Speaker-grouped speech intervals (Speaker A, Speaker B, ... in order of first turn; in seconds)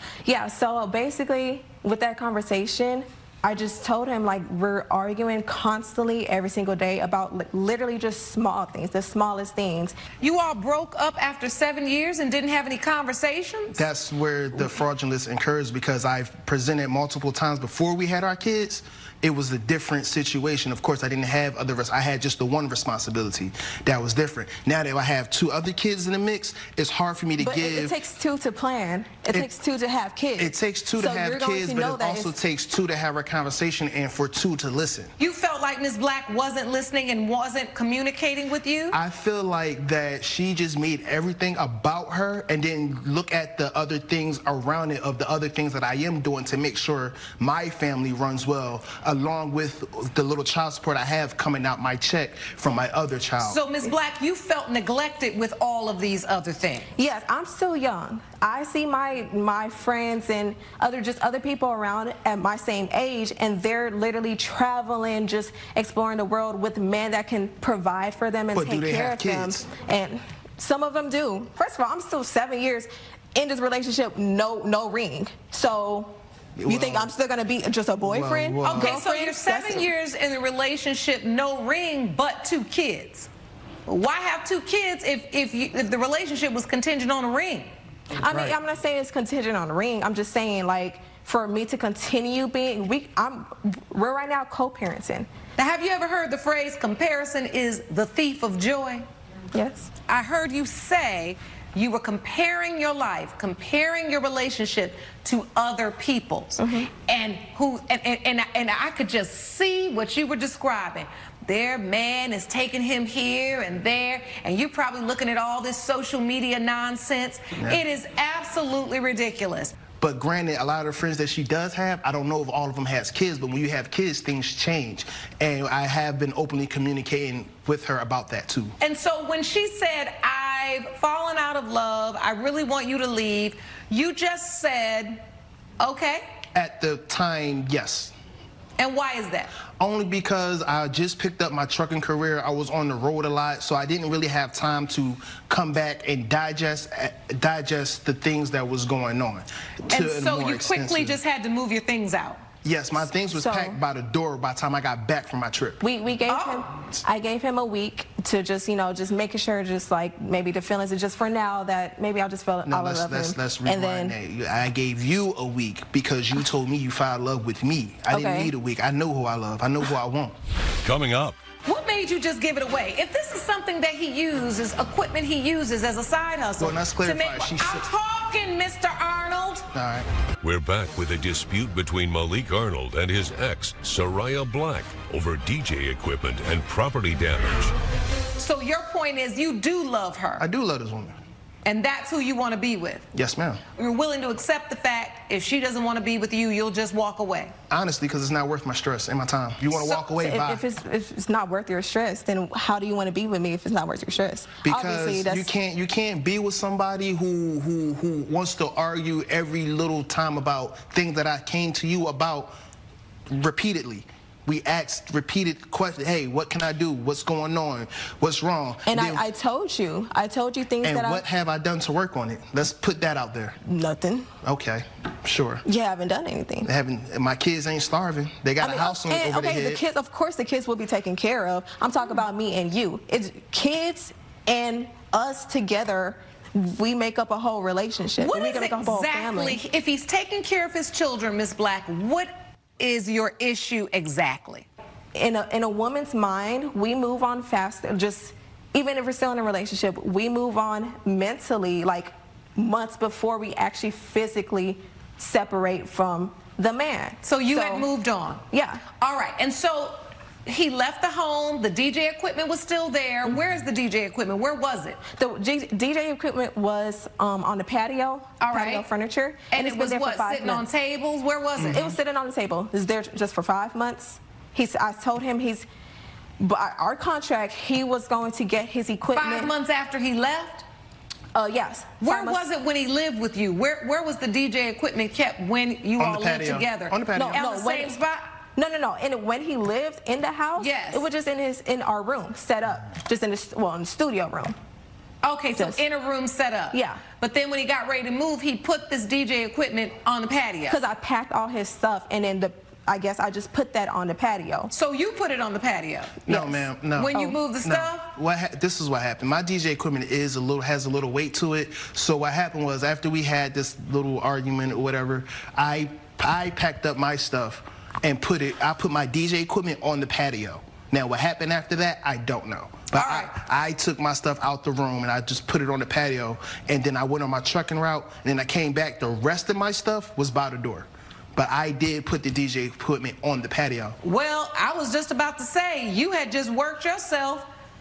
Speaker A: 0.2-10.0, 27.4-32.4, 57.0-79.9, 88.2-95.3, 99.5-99.9, 106.6-106.9, 153.3-153.8, 155.8-164.2, 168.1-168.5, 200.1-205.5, 218.9-221.2, 223.7-224.3, 225.7-226.7, 228.6-239.6, 245.2-257.9, 258.5-258.9, 265.1-270.7, 271.7-275.7, 276.4-279.5, 281.3-282.4, 287.1-288.0, 288.6-294.6, 295.6-295.8, 296.7-297.0, 300.7-304.7, 306.3-307.4
Speaker B: 10.2-13.8, 35.2-39.0, 53.4-57.0, 78.6-83.3, 83.9-87.7, 95.6-99.0, 100.1-119.7, 128.8-135.2, 135.8-136.2, 138.8-139.5, 149.9-152.4, 156.3-156.7, 171.6-179.7, 188.4-190.5, 191.7-193.1, 193.8-197.5, 199.7-200.1, 238.2-244.7, 257.2-258.4, 259.0-265.0, 268.4-268.9, 269.5-271.9, 279.1-280.6, 282.0-288.2, 290.6-291.1, 295.2-300.8, 304.7-306.3, 306.9-308.1, 322.9-323.3, 334.0-337.5
Speaker C: 13.7-28.0, 30.4-35.1, 38.9-53.6, 68.5-69.7, 76.6-77.1, 78.0-79.0, 88.3-88.6, 117.6-117.8, 120.0-128.8, 136.6-138.1, 139.8-151.2, 152.6-155.8, 162.7-170.3, 176.6-177.9, 179.7-180.1, 190.4-191.2, 193.1-193.6, 197.7-200.6, 204.6-212.6, 213.3-219.2, 220.8-223.6, 224.4-225.6, 226.7-229.8, 271.6-271.9, 286.0-287.5, 306.3-334.0
Speaker D: 170.8-171.4, 180.4-187.8